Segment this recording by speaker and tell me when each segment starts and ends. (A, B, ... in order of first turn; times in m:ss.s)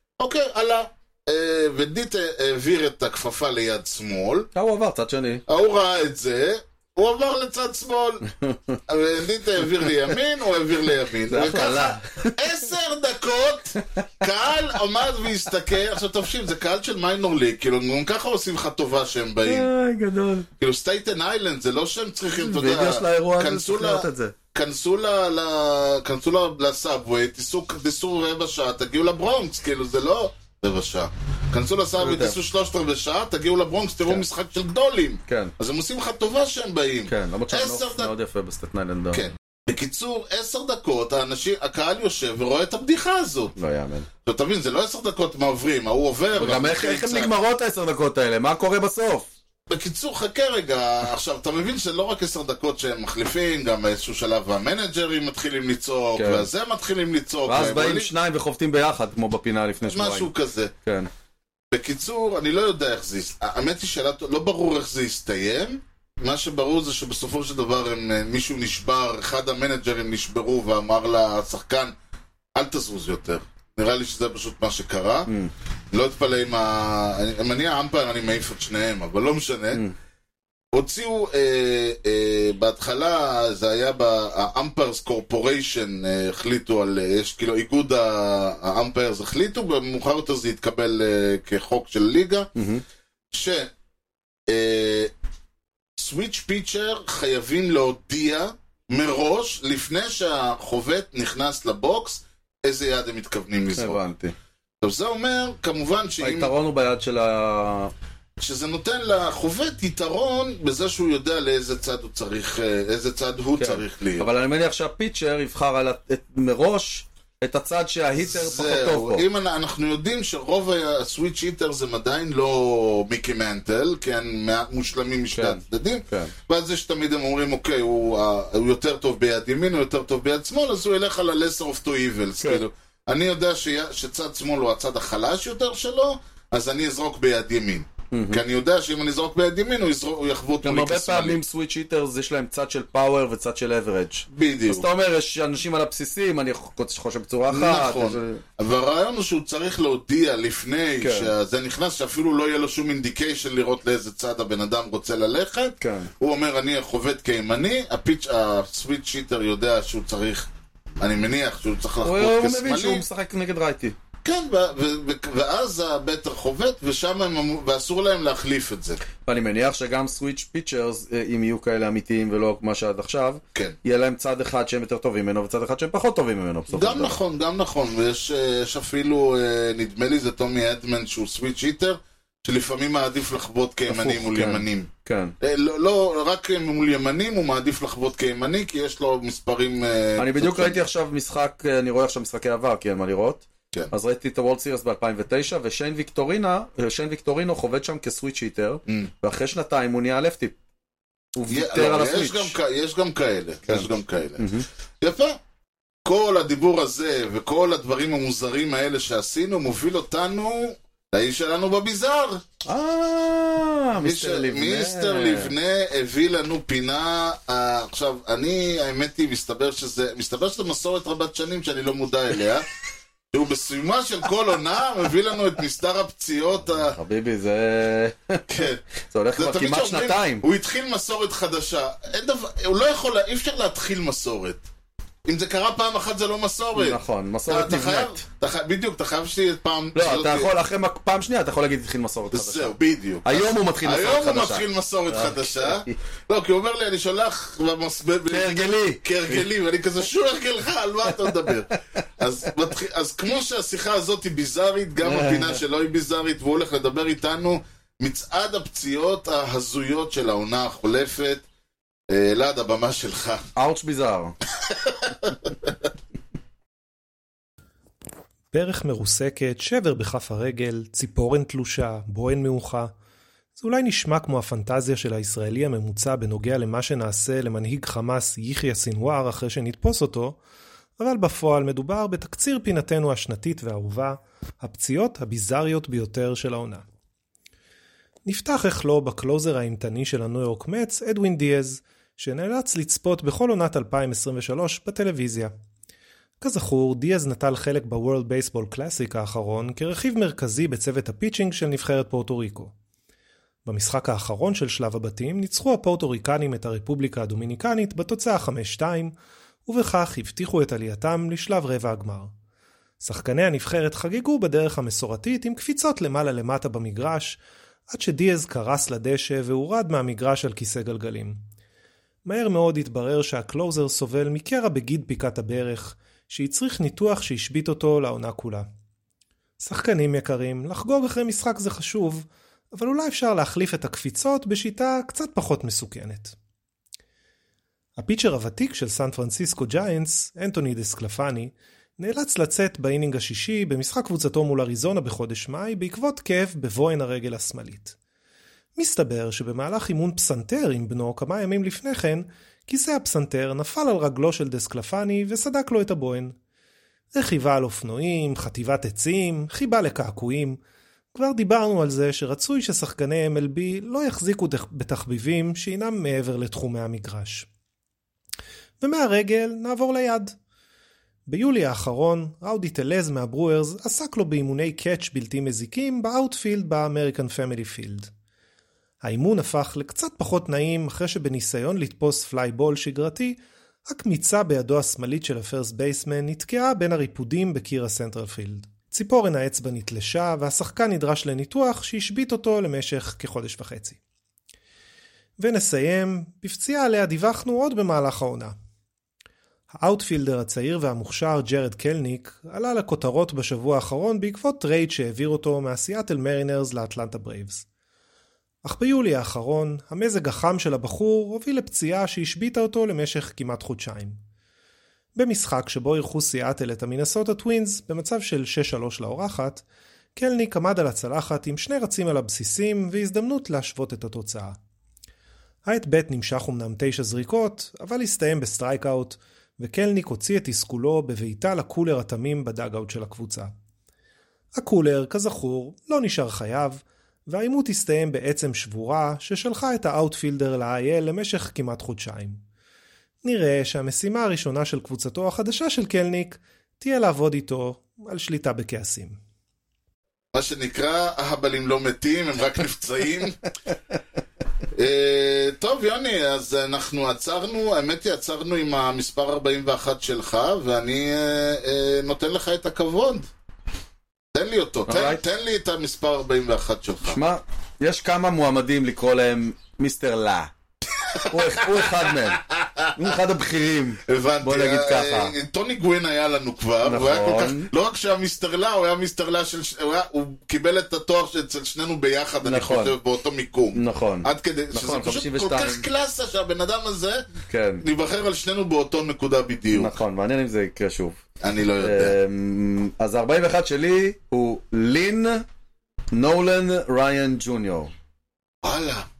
0:00.2-0:04.5 A
0:04.6-0:05.4 B
0:05.5-0:08.3 A
0:08.3-0:08.8 B
0:08.9-0:19.7 A
0:11.3-0:12.4 B
0:19.5-0:20.5 B
0:20.6-0:38.1 A
0:22.4-0:24.4 B
0:32.0-0:32.4 B
0:35.3-0:35.5 B
0:37.1-0:39.2 B
0:39.1-0:43.6 A
0:43.6-0:44.1 B
0:44.2-0:47.3 A
0:46.4-0:49.3 B
0:49.7-0:58.1 A
0:56.2-0:56.5 B
0:57.5-1:00.3 B
0:59.8-1:00.7 A
1:00.8-1:01.1 B
1:01.7-1:11.9 A
1:12.6-1:15.3 A
1:15.9-1:19.8 A
1:20.7-1:32.5 A
1:32.6-1:32.8 B
1:33.3-1:33.7 A
1:34.5-1:35.1 A
1:36.0-1:44.0 A
1:43.8-1:44.3 B
1:44.8-1:46.5 A
1:46.2-1:47.9 B
1:48.4-1:54.3 A
1:53.6-1:59.3 B
1:58.2-2:21.4 A
2:05.3-2:06.3 B
2:18.1-2:18.4 B
2:20.6-2:28.4 B
2:24.3-2:24.9 A
2:27.5-2:40.5 A
2:31.0-2:31.3 B
2:35.8-2:36.1 B
2:41.0-2:43.0 A
2:42.0-2:44.0 B
2:44.2-2:49.0 A
2:49.2-2:57.2 B
2:56.7-3:04.9 A
3:03.9-3:05.4 B
3:05.4-3:10.8 A
3:10.2-3:20.6 B
3:21.4-3:22.6 B
3:21.5-3:24.5 A
3:23.7-3:24.7 B
3:25.0-3:25.4 A
3:26.0-3:32.4 A
3:32.6-3:35.6 B
3:34.0-3:42.7 A
3:43.3-3:47.0 A
3:46.6-3:50.4 B
3:48.5-3:48.8 A
3:49.4-3:54.6 A
3:55.3-4:00.5 A
3:56.7-3:58.2 B
4:00.0-4:02.7 B
4:02.3-4:21.4 A
4:03.2-4:06.0 B
4:08.3-4:09.4 B
4:15.0-4:15.6 B
4:22.1-4:23.4 A
4:23.6-4:24.4 B
4:24.8-4:25.3 A
4:28.5-4:32.9 C
4:33.6-4:40.4 C
4:41.0-4:46.8 C
4:48.2-4:55.5 C
4:56.4-5:02.7 C
5:03.6-5:09.2 C
5:09.7-5:12.3 C
5:13.0-5:21.4 C
5:22.2-5:28.7 C
5:29.6-5:36.4 C
5:38.0-5:48.0 C
5:48.8-5:56.4 C
5:57.1-6:00.6 C
6:01.1-6:07.5 C
6:08.8-6:10.4 C
6:11.3-6:18.1 C
6:19.0-6:34.0 C
6:35.4-6:38.5 C
6:39.7-6:47.6 C
6:48.6-6:54.2 C
6:55.2-6:59.6 C
7:00.2-7:04.6 C
7:05.6-7:13.5 C
7:14.5-7:22.4 C
7:23.2-7:29.2 C
7:30.3-7:33.4 A
7:34.8-7:43.3 A
7:44.3-7:47.2 A
7:44.9-7:45.2 B
7:47.1-7:50.5 B
7:51.1-7:53.0 A
7:51.2-7:52.4 B
7:53.0-7:55.4 B
7:54.1-8:07.2 A
7:56.8-7:57.7 B
8:02.4-8:03.0 B
8:03.7-8:05.9 B
8:07.5-8:07.8 B
8:07.8-8:10.0 A
8:09.7-8:11.2 B
8:11.4-8:12.2 A
8:11.8-8:15.4 B
8:16.1-8:17.9 B
8:18.6-8:19.1 A